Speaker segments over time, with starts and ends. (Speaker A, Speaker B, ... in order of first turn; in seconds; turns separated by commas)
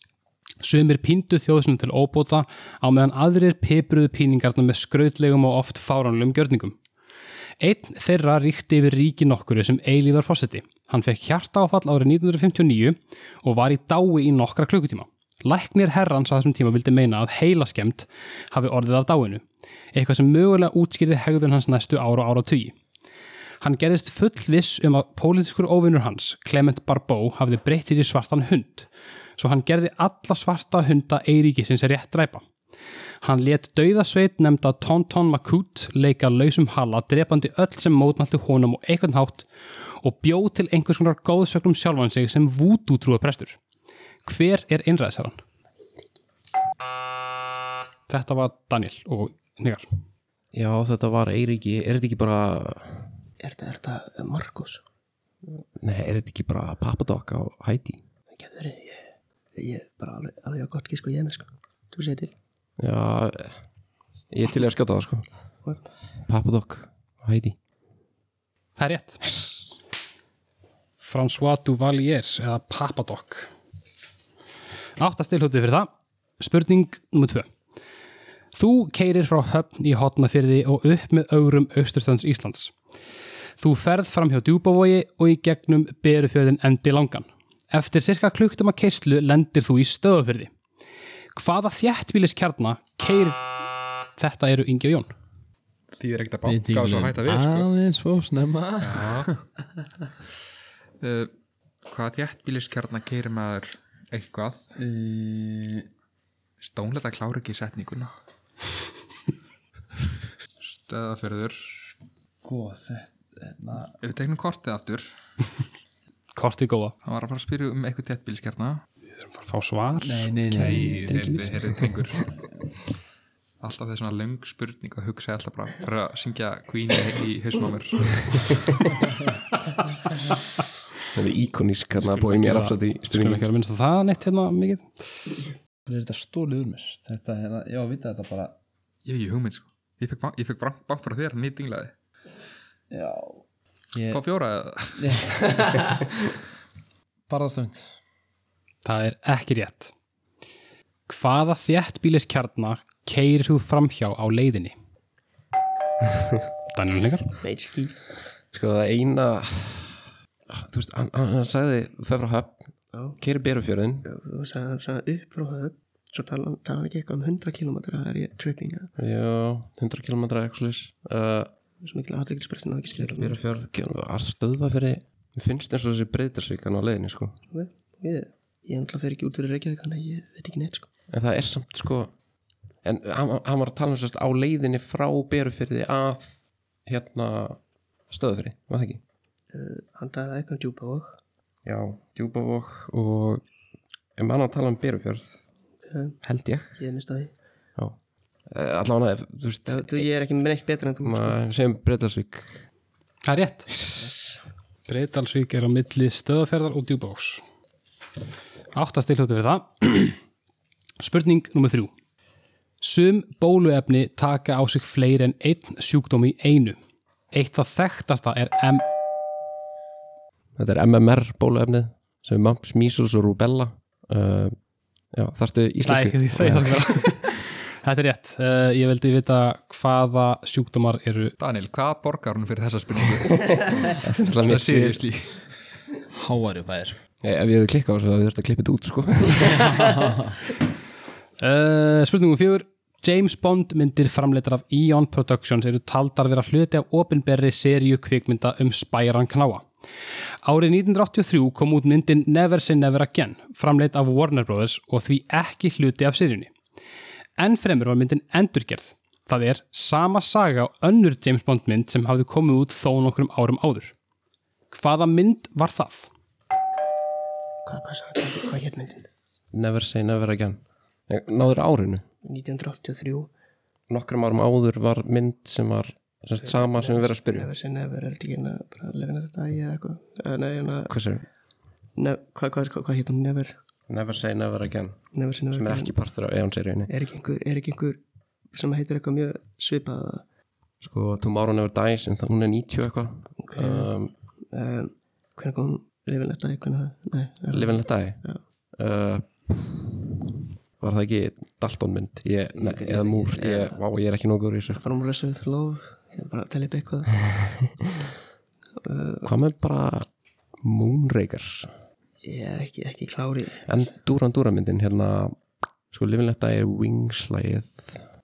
Speaker A: 0.6-6.8, Speaker A: 7.6-19.4, Speaker A: 19.9-22.7, Speaker A: 23.6-32.4, Speaker A: 33.2-43.6, Speaker A: 44.2-45.4, Speaker A: 48.1-49.9, Speaker B: 50.5-53.1, Speaker C: 53.4-54.8, Speaker B: 55.5-58.0, Speaker C: 58.4-59.0, Speaker C: 59.5-62.3, Speaker B: 62.8-63.6, Speaker B: 64.3-65.2, Speaker B: 66.3-67.5, Speaker A: 68.8-69.3, Speaker A: 71.0-73.5, Speaker A: 75.0-77.5, Speaker A: 78.5-82.7, Speaker A: 83.6-90.5, Speaker A: 91.3-93.4, Speaker A: 94.2-95.1, Speaker D: 96.0-97.7, Speaker E: 96.4-100.1, Speaker D: 98.8-99.3, Speaker D: 101.0-101.3, Speaker D: 101.8-104.6, Speaker E: 104.8-105.9, Speaker D: 106.6-108.1, Speaker D: 110.6-111.8, Speaker E: 112.4-114.0, Speaker D: 114.0-115.1, Speaker A: 116.3-116.9, Speaker D: 117.0-118.8, Speaker A: 119.2-120.6, Speaker E: 120.0-121.3, Speaker D: 120.5-122.3, Speaker D: 123.6-128.9, Speaker B: 131.1-133.5, Speaker A: 132.2-135.0, Speaker E: 135.8-138.6, Speaker D: 139.0-141.9, Speaker E: 142.9-144.2, Speaker D: 144.1-145.1, Speaker E: 144.9-145.9, Speaker E: 147.3-147.9, Speaker A: 148.8-149.9, Speaker A: 151.1-154.7, Speaker A: 156.7-157.3, Speaker C: 157.4-158.0, Speaker B: 158.5-162.6, Speaker C: 162.9-163.2, Speaker B: 163.2-164.1, Speaker C: 164.0-168.9, Speaker B: 169.0-171.5, Speaker C: 171.8-173.4, Speaker B: 173.0-177.4, Speaker C: 177.5-180.9, Speaker B: 181.1-182.1, Speaker B: 182.8-187.6, Speaker B: 188.1-189.0, Speaker C: 189.5-191.2, Speaker B: 191.6-193.4, Speaker B: 194.2-195.4, Speaker C: 195.9-196.2, Speaker B: 196.2-196.8, Speaker C: 196.8-197.3, Speaker B: 198.5-200.0, Speaker C: 199.7-201.4, Speaker B: 201.0-202.7, Speaker A: 203.2-203.7, Speaker B: 203.7-204.3, Speaker A: 204.9-207.4, Speaker A: 208.7-210.2, Speaker A: 211.0-211.9, Speaker A: 212.8-216.8, Speaker A: 217.3-218.8, Speaker B: 220.6-224.5, Speaker B: 225.1-227.0, Speaker A: 225.8-231.3, Speaker D: 231.4-235.5, Speaker B: 234.0-235.0, Speaker E: 236.1-237.0, Speaker B: 237.2-239.9, Speaker E: 239.7-240.3, Speaker A: 241.4-249.7, Speaker A: 250.4-256.5, Speaker A: 257.4-263.9, Speaker A: 264.7-266.1, Speaker C: 267.6-269.1, Speaker B: 269.5-272.0, Speaker C: 272.2-273.3, Speaker B: 273.9-277.5, Speaker C: 276.4-280.9, Speaker B: 280.9-281.2, Speaker C: 282.0-283.6, Speaker B: 283.9-285.0, Speaker C: 285.1-285.9, Speaker B: 285.5-286.9, Speaker C: 286.9-288.0, Speaker C: 288.5-290.2, Speaker B: 290.8-294.1, Speaker C: 293.4-293.9, Speaker C: 294.5-298.4, Speaker B: 297.5-298.2, Speaker B: 298.8-300.1, Speaker B: 300.8-304.8, Speaker C: 302.6-303.8, Speaker C: 304.7-307.7, Speaker C: 308.8-309.3, Speaker B: 309.2-310.1, Speaker B: 310.6-311.7, Speaker C: 312.2-313.8, Speaker B: 313.6-315.4, Speaker B: 315.9-318.0